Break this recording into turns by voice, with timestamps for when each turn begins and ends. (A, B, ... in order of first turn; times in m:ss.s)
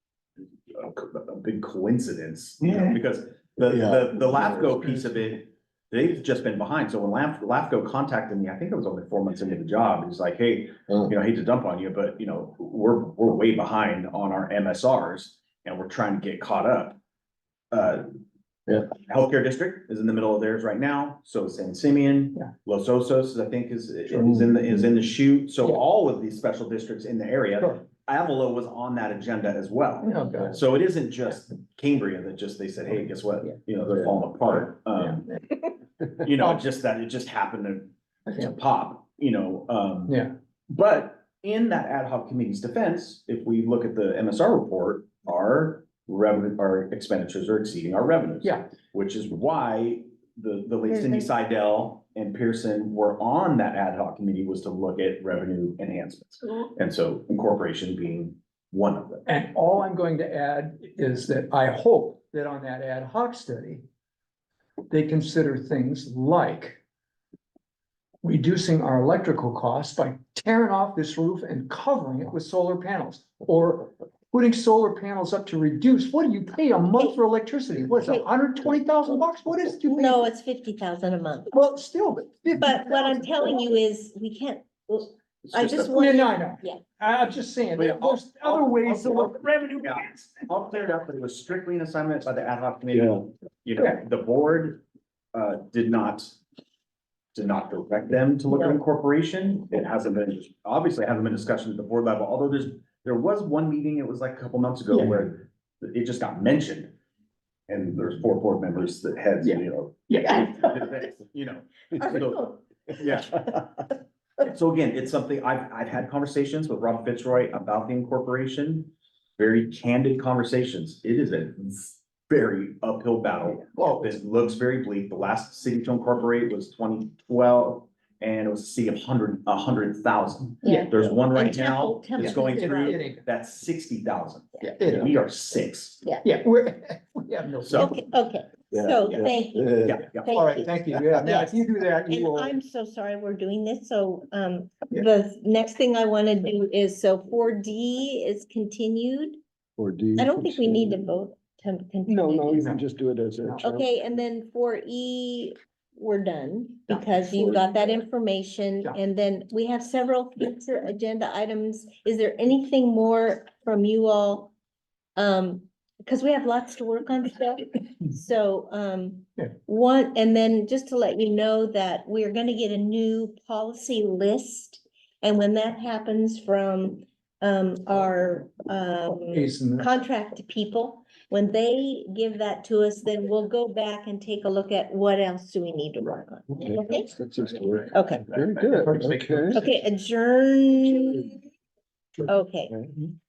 0:00.7-0:17.0 A
0:02.6-0:03.0 B
0:03.7-0:05.0 B
0:10.9-0:11.1 B
0:17.7-0:18.0 A
0:19.0-0:35.2 A
0:24.2-0:24.6 B
0:30.0-0:30.6 C
0:35.0-0:35.4 C
0:36.2-0:40.2 A
0:38.3-0:38.5 C
0:40.7-0:59.2 A
0:48.4-0:48.7 C
0:50.9-0:51.2 D
0:59.2-1:03.8 C
1:04.9-1:06.8 C
1:08.2-1:20.2 C
1:18.0-1:18.3 D
1:19.9-1:21.5 D
1:21.5-1:23.4 C
1:22.6-1:26.8 D
1:25.5-1:25.9 A
1:25.9-1:30.5 C
1:27.8-1:36.4 A
1:32.9-1:33.2 B
1:37.3-1:46.9 A
1:47.7-1:53.8 A
1:49.4-1:50.9 C
1:52.0-1:52.6 D
1:54.4-2:16.0 A
2:03.7-2:04.2 C
2:10.6-2:13.0 D
2:12.2-2:13.2 C
2:14.8-2:15.1 C
2:14.8-2:15.1 B
2:16.2-2:18.0 C
2:17.6-2:18.0 A
2:17.7-2:29.4 D
2:18.7-2:20.0 B
2:19.0-2:19.3 A
2:19.8-2:20.4 A
2:20.3-2:22.6 C
2:29.8-2:31.1 B
2:30.2-2:32.8 D
2:32.1-2:33.9 B
2:32.6-2:32.8 C
2:33.6-2:44.5 D
2:37.3-2:38.0 B
2:45.2-3:07.2 D
2:59.3-2:59.9 C
3:06.6-3:09.6 B
3:07.9-3:08.2 D
3:08.7-3:09.7 C
3:09.5-3:11.4 D
3:12.2-3:12.7 D